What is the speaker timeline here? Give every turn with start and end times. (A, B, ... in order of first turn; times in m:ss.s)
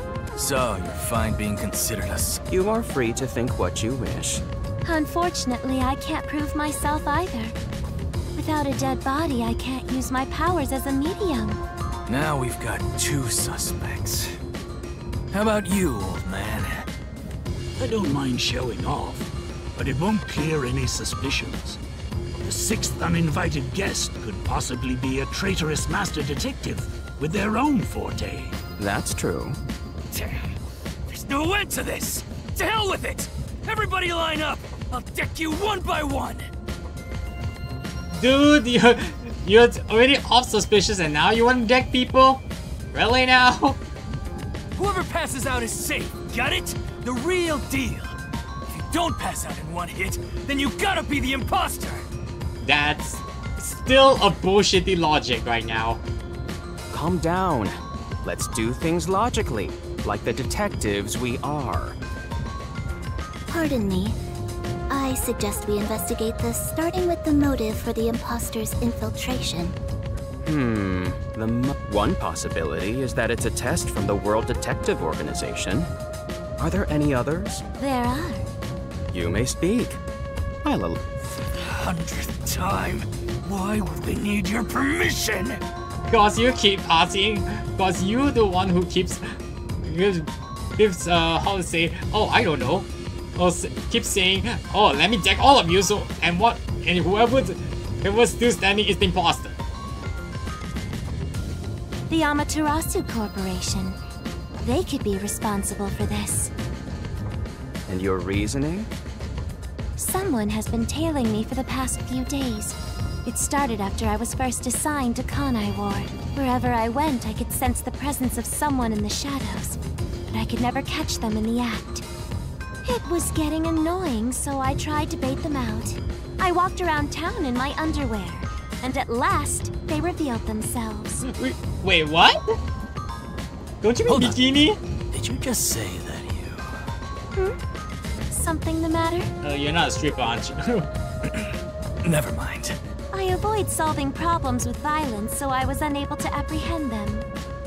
0:00.3-0:02.4 A
0:02.5-0:04.4 B
0:04.8-0:07.5 C
0:08.4-0:11.6 C
0:12.1-0:14.4 A
0:15.3-0:16.9 A
0:17.8-0:21.8 D
0:22.4-0:28.6 D
0:28.8-0:29.6 B
0:30.1-0:30.4 A
0:31.1-0:36.5 A
0:38.1-0:43.8 E
0:44.7-0:48.2 A
0:48.7-0:52.1 A
0:52.6-0:56.0 E
0:56.9-1:02.0 B
1:03.5-1:04.2 F
1:04.9-1:09.8 F
1:10.4-1:15.9 B
1:16.6-1:17.6 B
1:17.8-1:18.4 C
1:19.1-1:20.0 B
1:20.6-1:21.1 B
1:21.6-1:25.6 D
1:26.1-1:39.6 E
1:42.1-1:44.0 C
1:44.6-1:46.5 C
1:47.9-1:48.9 B
1:50.0-1:59.8 C
2:00.3-2:02.0 C
2:02.8-2:11.2 C
2:11.2-2:12.6 E
2:13.8-2:14.8 E
2:14.1-2:14.4 A
2:15.1-2:16.9 A
2:18.3-2:19.3 C
2:19.4-2:20.9 E
2:22.0-2:22.8 A
2:23.1-2:27.3 C